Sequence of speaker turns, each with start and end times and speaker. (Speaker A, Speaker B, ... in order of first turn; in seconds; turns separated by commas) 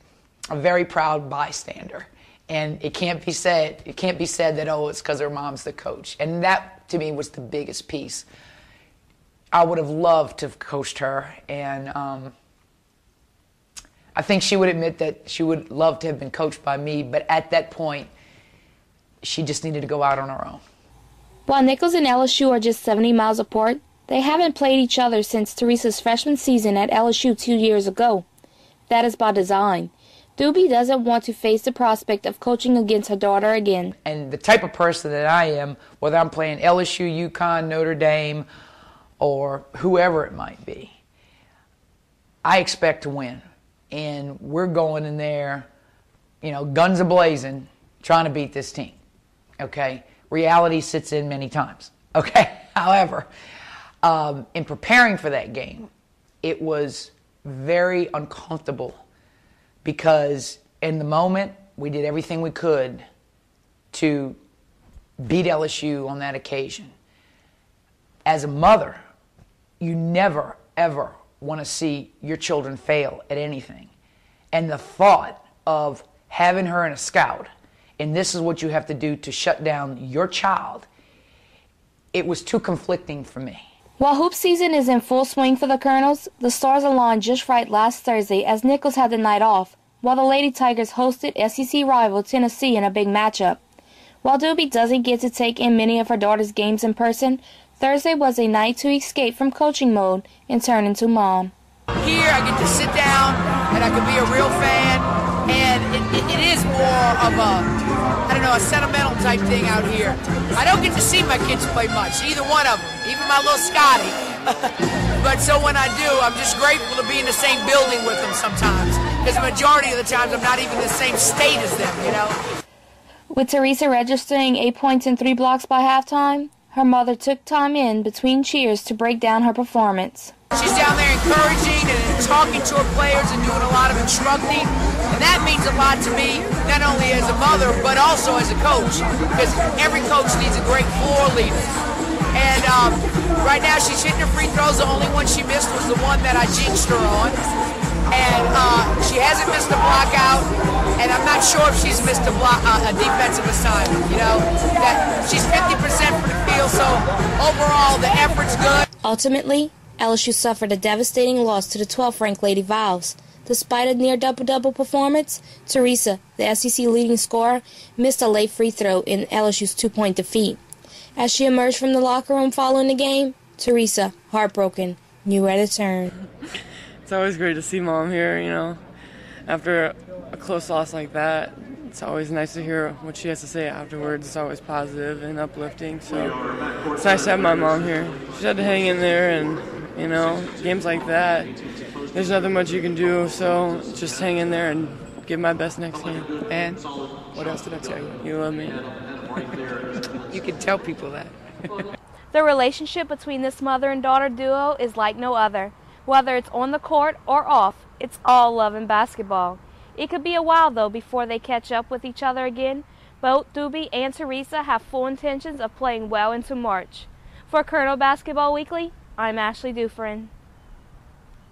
Speaker A: 0.5-8.3, Speaker A: 9.5-12.3, Speaker A: 14.1-18.1, Speaker A: 19.2-20.6, Speaker B: 21.4-28.2, Speaker B: 28.9-33.9, Speaker A: 34.0-38.5, Speaker A: 39.2-41.0, Speaker A: 42.4-45.7, Speaker A: 46.4-49.0, Speaker A: 49.6-53.3, Speaker A: 54.0-55.9, Speaker A: 56.4-59.0, Speaker A: 59.8-63.0, Speaker A: 63.9-64.4, Speaker A: 65.2-66.9, Speaker A: 68.2-69.0, Speaker A: 69.8-73.9, Speaker A: 74.5-80.9, Speaker A: 82.1-83.7, Speaker B: 84.0-93.6, Speaker B: 94.2-101.5, Speaker A: 102.0-107.7, Speaker A: 108.3-122.4, Speaker B: 123.3-130.3, Speaker A: 130.5-141.7, Speaker A: 142.3-147.4, Speaker A: 148.1-158.8, Speaker B: 159.0-170.6, Speaker B: 171.2-176.1, Speaker C: 177.0-178.8, Speaker C: 179.4-186.4, Speaker C: 186.9-191.5, Speaker C: 192.1-196.4, Speaker A: 196.5-196.8, Speaker A: 197.3-198.2, Speaker C: 198.2-198.9, Speaker A: 199.9-201.8, Speaker D: 202.3-220.3